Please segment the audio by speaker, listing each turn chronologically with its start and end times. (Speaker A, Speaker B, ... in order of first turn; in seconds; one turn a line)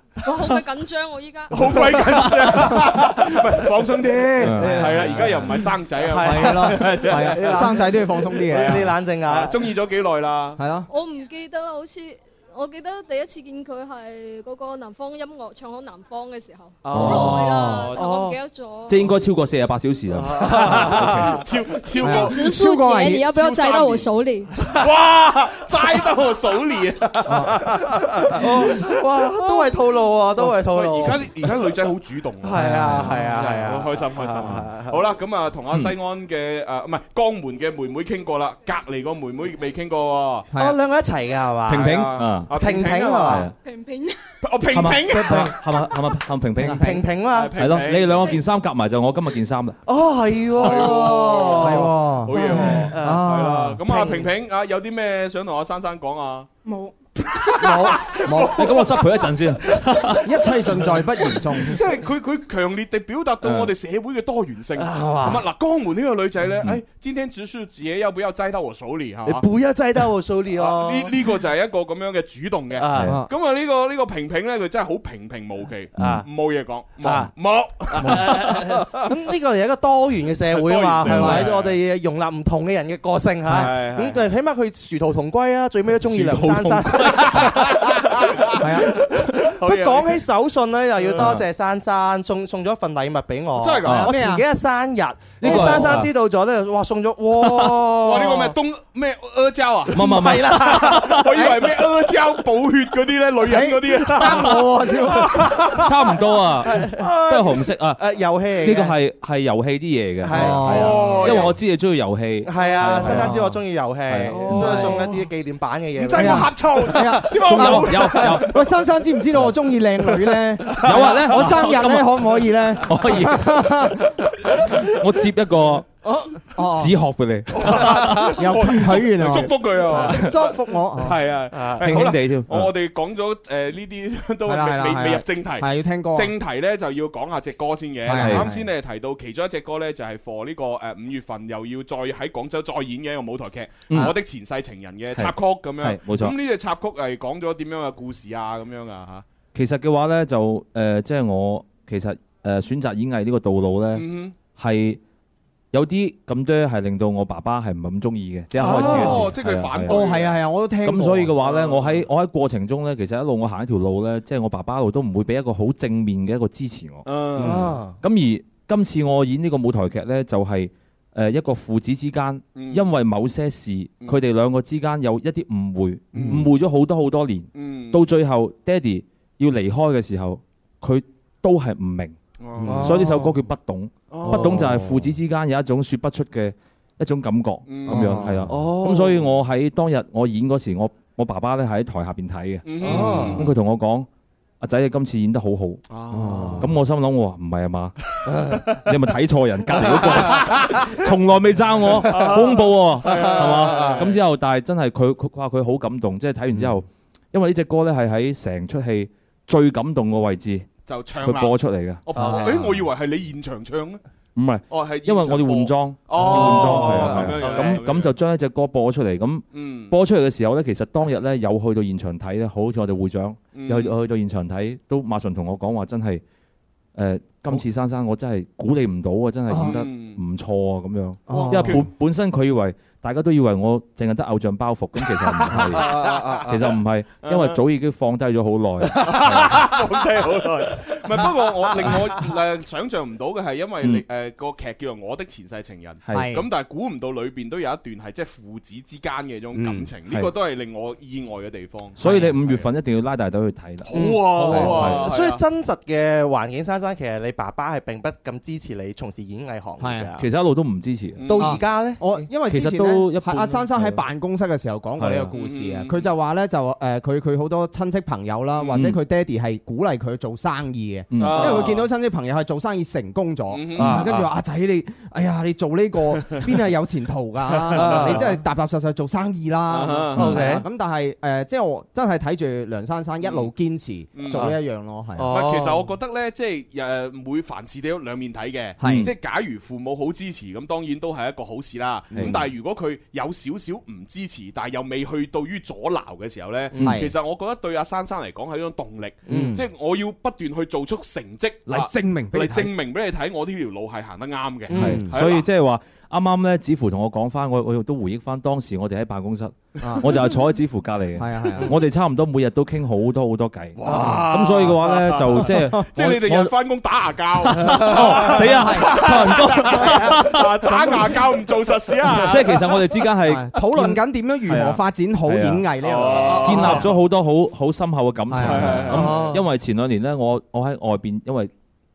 Speaker A: 0.2-1.6
Speaker B: 1.5-10.6
Speaker C: 4.4-5.3
Speaker D: 4.6-5.5
Speaker E: 6.0-7.9
Speaker D: 6.2-8.8
Speaker E: 8.4-9.7
Speaker D: 10.6-10.9
Speaker A: 10.9-19.0
Speaker B: 16.9-18.1
Speaker E: 16.9-17.2
Speaker C: 16.9-17.5
Speaker D: 17.0-17.9
Speaker E: 17.9-18.4
Speaker C: 18.9-21.4
Speaker E: 20.1-21.4
Speaker B: 20.6-22.4
Speaker A: 21.8-24.6
Speaker D: 22.0-23.3
Speaker B: 23.3-24.1
Speaker B: 24.6-29.7
Speaker D: 27.3-27.5
Speaker E: 27.6-31.7
Speaker B: 30.6-40.5
Speaker E: 32.4-35.0
Speaker D: 32.5-33.1
Speaker D: 40.5-40.8
Speaker E: 40.5-42.0
Speaker C: 41.7-42.5
Speaker B: 41.7-43.5
Speaker E: 42.5-43.5
Speaker C: 43.2-43.5
Speaker A: 43.6-44.4
Speaker B: 44.4-45.5
Speaker C: 44.7-47.0
Speaker A: 45.7-46.2
Speaker D: 46.6-47.0
Speaker E: 46.8-47.6
Speaker B: 47.3-48.3
Speaker C: 47.5-49.8
Speaker A: 48.2-48.4
Speaker E: 49.9-54.3
Speaker B: 50.5-56.5
Speaker D: 51.6-53.8
Speaker A: 56.6-56.9
Speaker B: 57.2-58.9
Speaker E: 57.6-58.1
Speaker D: 58.2-58.6
Speaker C: 58.5-60.4
Speaker D: 60.2-61.7
Speaker B: 61.7-69.5
Speaker C: 63.4-63.7
Speaker E: 64.8-65.4
Speaker E: 69.2-71.3
Speaker B: 70.5-79.1
Speaker E: 72.7-73.1
Speaker D: 73.0-73.3
Speaker E: 76.0-76.3
Speaker E: 77.0-77.3
Speaker E: 77.9-88.0
Speaker B: 80.5-81.8
Speaker D: 81.0-81.5
Speaker B: 83.5-84.3
Speaker C: 86.0-87.3
Speaker B: 87.0-88.5
Speaker D: 88.6-89.0
Speaker E: 89.1-98.5
Speaker B: 89.4-90.2
Speaker B: 91.1-91.4
Speaker B: 93.6-94.1
Speaker C: 93.8-94.1
Speaker D: 93.9-94.4
Speaker C: 95.4-96.1
Speaker C: 97.4-97.8
Speaker B: 97.9-106.2
Speaker E: 99.9-101.3
Speaker C: 99.9-101.3
Speaker D: 101.3-101.7
Speaker D: 103.4-105.5
Speaker C: 105.8-108.0
Speaker E: 106.7-109.0
Speaker B: 107.0-107.4
Speaker C: 108.6-114.7
Speaker E: 110.2-111.5
Speaker D: 110.3-111.2
Speaker B: 110.5-111.5
Speaker E: 112.4-116.7
Speaker D: 113.1-113.5
Speaker B: 114.3-115.2
Speaker D: 114.5-115.0
Speaker B: 115.9-118.9
Speaker D: 116.1-123.9
Speaker C: 117.4-118.5
Speaker B: 120.7-121.9
Speaker C: 120.8-125.9
Speaker D: 126.0-126.9
Speaker C: 126.7-128.3
Speaker B: 127.5-149.2
Speaker D: 128.3-131.2
Speaker E: 131.5-131.8
Speaker C: 131.8-132.7
Speaker D: 134.5-136.3
Speaker D: 138.1-138.7
Speaker C: 138.1-138.5
Speaker C: 143.9-144.2
Speaker C: 145.1-146.3
Speaker C: 149.5-155.0
Speaker B: 153.9-154.3
Speaker C: 155.7-160.0
Speaker E: 158.6-159.2
Speaker B: 158.6-160.4
Speaker D: 158.7-159.3
Speaker D: 159.8-161.3
Speaker C: 160.8-182.2
Speaker B: 161.4-162.1
Speaker B: 167.1-167.7
Speaker E: 167.4-167.9
Speaker B: 172.6-172.9
Speaker B: 176.1-176.5
Speaker B: 177.5-178.0
Speaker B: 182.4-183.1
Speaker D: 182.6-182.9
Speaker E: 182.7-183.3
Speaker C: 182.8-194.1
Speaker B: 184.1-184.8
Speaker D: 184.3-185.0
Speaker B: 187.7-188.4
Speaker D: 187.9-188.5
Speaker E: 188.5-189.2
Speaker B: 192.7-193.5
Speaker E: 192.8-193.4
Speaker D: 192.9-193.3
Speaker C: 194.6-195.8
Speaker B: 195.9-196.6
Speaker D: 196.2-196.5
Speaker C: 196.5-197.9
Speaker E: 198.3-198.6
Speaker C: 198.8-210.7
Speaker B: 199.9-200.4
Speaker B: 201.8-204.2
Speaker E: 203.1-204.0
Speaker B: 210.9-214.0
Speaker C: 211.2-212.0
Speaker E: 212.1-212.7
Speaker D: 212.2-212.6
Speaker C: 214.3-226.2
Speaker B: 214.7-218.1
Speaker D: 216.2-217.7
Speaker E: 216.5-217.5
Speaker B: 219.5-219.9
Speaker B: 223.5-223.9
Speaker C: 226.9-239.7
Speaker D: 229.5-229.8
Speaker B: 229.5-230.2
Speaker D: 231.3-231.8
Speaker B: 231.3-231.9
Speaker B: 235.5-237.6
Speaker D: 235.9-236.4
Speaker B: 238.9-252.7
Speaker C: 246.1-246.3
Speaker D: 246.1-246.4
Speaker D: 249.6-249.9
Speaker C: 250.1-250.3
Speaker C: 252.0-253.9
Speaker D: 252.0-252.3
Speaker B: 253.8-255.4
Speaker E: 253.9-260.2
Speaker D: 254.3-255.0
Speaker C: 254.5-255.0
Speaker D: 259.8-260.1
Speaker C: 260.2-261.2
Speaker B: 261.2-261.6
Speaker E: 261.2-262.3
Speaker D: 261.4-285.3
Speaker C: 262.4-264.0
Speaker C: 265.0-265.3
Speaker B: 265.3-266.0
Speaker C: 268.7-269.0
Speaker C: 271.1-271.8
Speaker B: 271.2-271.8
Speaker B: 273.5-274.2
Speaker E: 273.8-274.1
Speaker B: 277.7-278.2
Speaker E: 277.7-278.4
Speaker B: 279.7-280.5
Speaker E: 280.1-280.6
Speaker B: 283.2-283.5
Speaker B: 284.1-284.5
Speaker E: 284.3-284.6
Speaker E: 285.1-285.9
Speaker B: 285.3-305.5
Speaker D: 288.8-289.1
Speaker C: 288.8-289.1
Speaker D: 292.1-292.4
Speaker C: 292.1-292.4
Speaker C: 296.8-297.0
Speaker D: 296.8-297.1
Speaker D: 299.3-299.6
Speaker D: 301.7-302.7
Speaker D: 304.7-305.1
Speaker C: 304.7-316.5
Speaker D: 309.8-310.1
Speaker D: 311.2-311.7
Speaker B: 313.8-323.0
Speaker E: 313.9-314.2
Speaker C: 317.4-320.5
Speaker D: 318.5-319.0
Speaker C: 322.1-325.6
Speaker D: 323.2-326.9
Speaker B: 325.8-326.9
Speaker C: 326.4-331.5
Speaker D: 328.3-329.1
Speaker B: 328.4-329.4
Speaker E: 328.9-329.4